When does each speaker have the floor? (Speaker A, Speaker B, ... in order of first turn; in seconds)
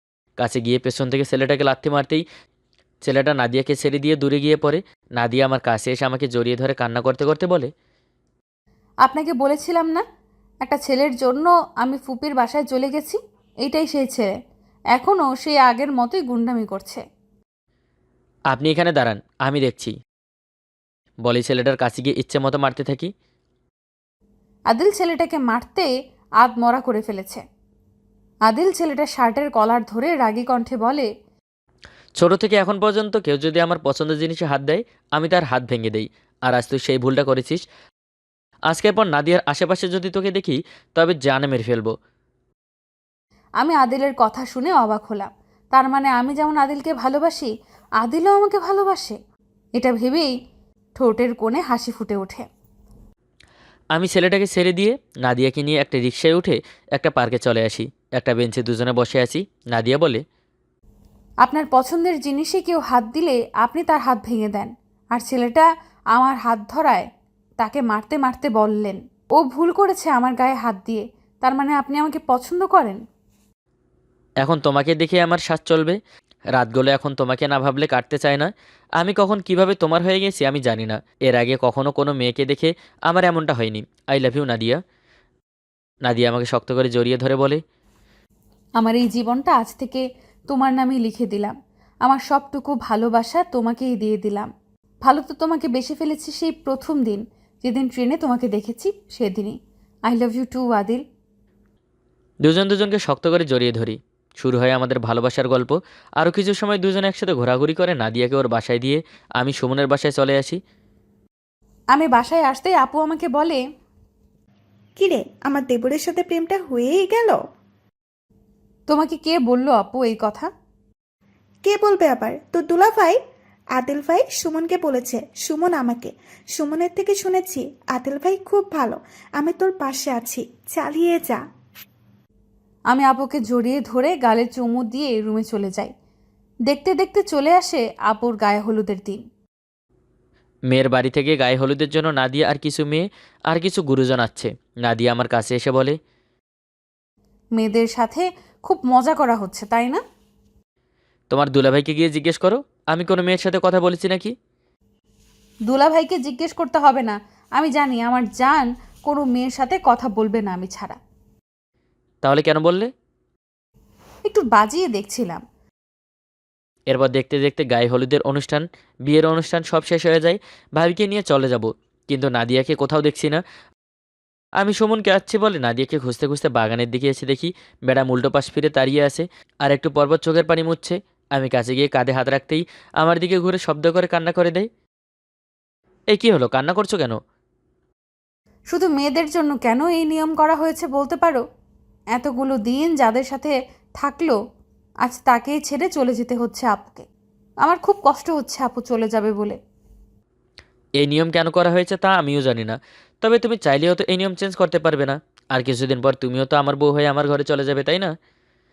Speaker A: 0.4-2.2, 3.0-7.7, 18.5-19.9, 21.2-23.1, 32.2-37.6, 38.7-41.9, 53.9-60.2, 74.4-76.0, 76.6-84.8, 86.1-87.6, 102.4-110.6, 140.7-146.0, 151.3-154.3, 162.2-162.9, 166.9-173.4, 174.6-184.7, 186.1-187.2, 201.0-208.1
Speaker B: 9.0-10.0, 10.6-14.3, 14.9-17.0, 24.7-25.9, 26.4-27.4, 28.5-31.1, 43.6-47.5, 48.0-49.1, 49.8-50.3, 51.0-52.5, 61.4-67.1, 67.6-73.0, 88.8-91.5, 92.0-94.5, 95.0-99.5, 100.1-101.0, 111.9-113.6, 118.9-120.5, 132.9-135.9, 136.7-139.2, 147.6-150.0, 155.7-161.0, 164.2-165.4, 188.7-191.4, 192.2-194.4, 195.0-197.1, 197.6-199.6
Speaker C: 115.0-117.4, 121.6-123.2, 123.8-131.4